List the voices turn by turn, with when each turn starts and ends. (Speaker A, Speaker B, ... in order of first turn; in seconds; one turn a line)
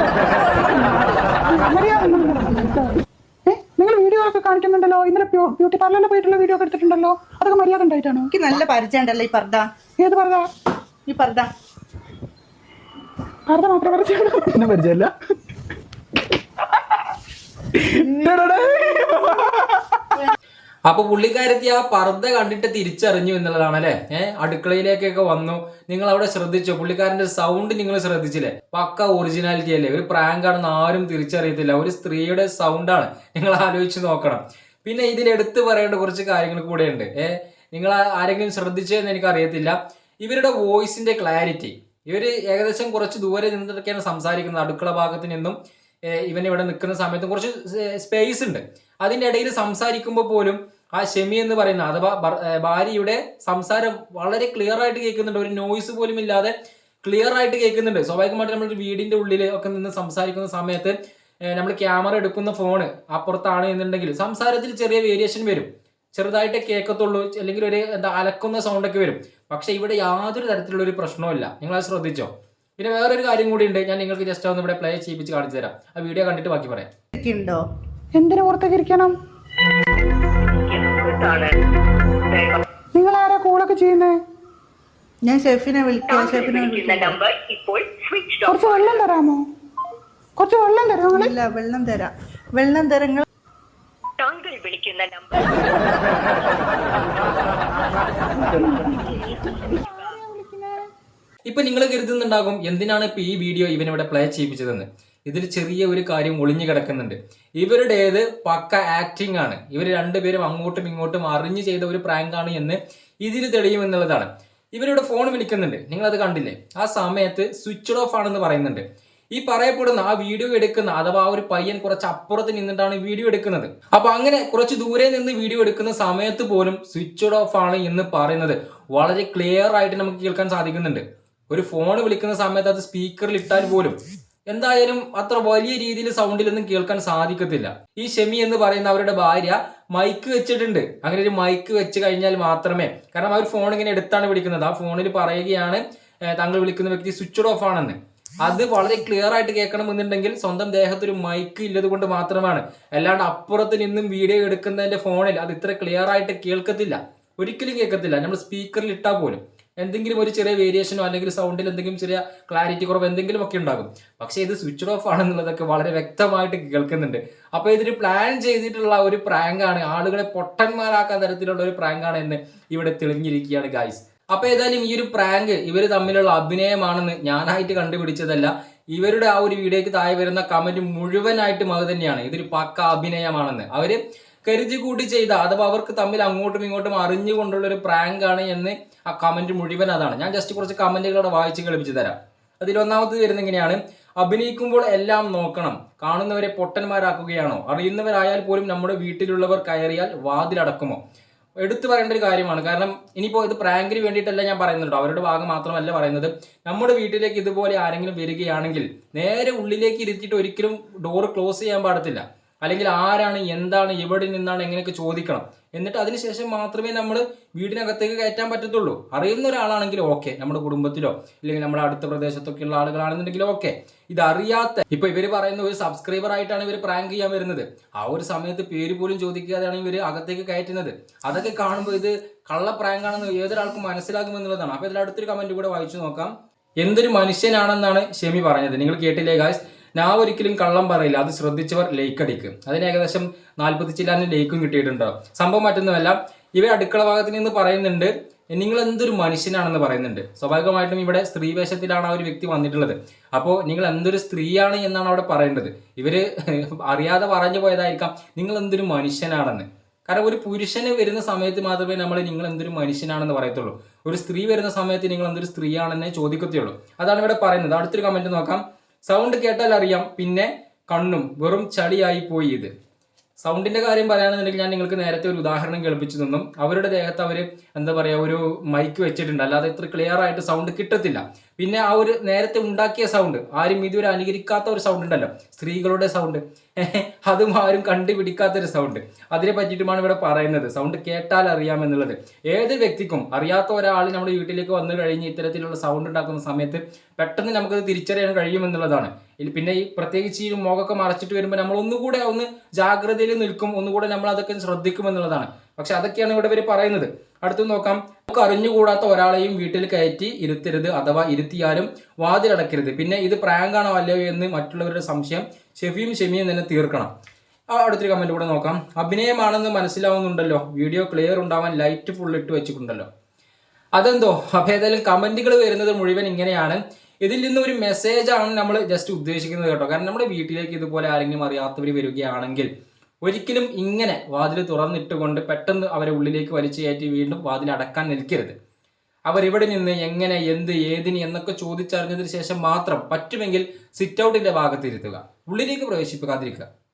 Speaker A: 0.2-1.4
Speaker B: 1.5-8.3
Speaker A: 8.3-9.7
Speaker B: 10.0-10.5
Speaker A: 11.1-11.5
Speaker B: 13.5-14.5
Speaker C: 14.5-15.1
Speaker C: 17.7-20.1
Speaker D: 20.9-45.5
Speaker D: 46.1-60.9
Speaker D: 61.5-76.9
Speaker A: 77.1-77.6
Speaker B: 78.1-79.1
Speaker E: 80.5-81.5
Speaker E: 82.3-82.6
Speaker B: 82.9-84.2
Speaker A: 85.2-87.2
Speaker E: 86.0-89.0
Speaker B: 88.5-89.4
Speaker B: 90.4-91.3
Speaker A: 91.1-93.2
Speaker E: 94.2-98.0
Speaker E: 98.5-100.1
Speaker B: 98.6-99.1
Speaker B: 99.8-100.9
Speaker D: 101.5-118.8
Speaker D: 119.3-134.0
Speaker D: 134.5-201.0
Speaker D: 201.6-272.7
Speaker D: 273.4-317.1
Speaker D: 317.7-323.1
Speaker D: 323.9-332.7
Speaker D: 333.2-338.5
Speaker D: 339.3-346.6